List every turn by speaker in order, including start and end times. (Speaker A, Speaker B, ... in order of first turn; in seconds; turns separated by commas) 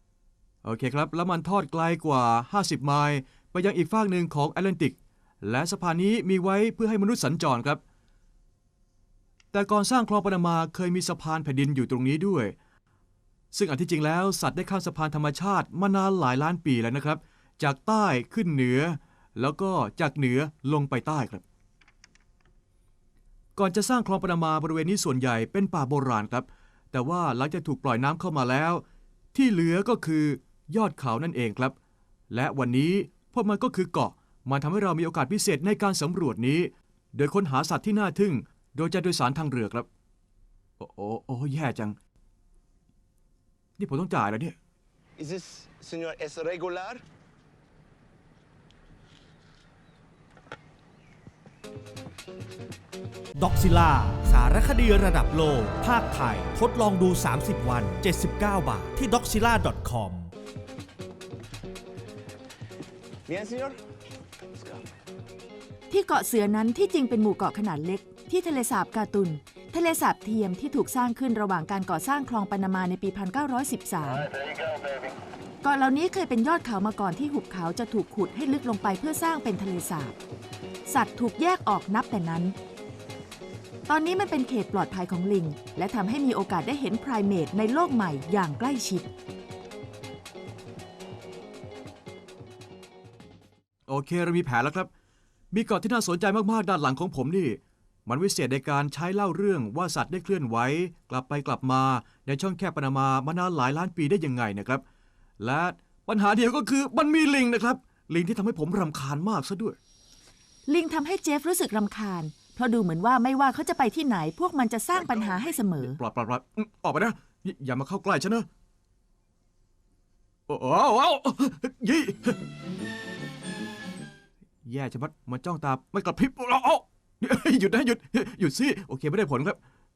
Speaker A: 0.6-7.8, Speaker A: 9.5-12.6, Speaker A: 13.5-21.4, Speaker A: 23.6-28.8, Speaker A: 29.3-31.7, Speaker A: 32.3-39.9, Speaker A: 40.8-42.0, Speaker A: 43.8-44.5, Speaker B: 45.2-47.0, Speaker C: 53.4-60.3, Speaker B: 63.3-63.8, Speaker D: 65.9-74.3, Speaker D: 75.6-80.2, Speaker D: 80.8-82.5, Speaker D: 83.9-89.1, Speaker A: 93.9-94.9, Speaker A: 95.5-104.8, Speaker A: 105.4-109.8, Speaker D: 110.7-116.0, Speaker A: 115.8-118.5, Speaker A: 120.5-122.4, Speaker A: 124.6-129.6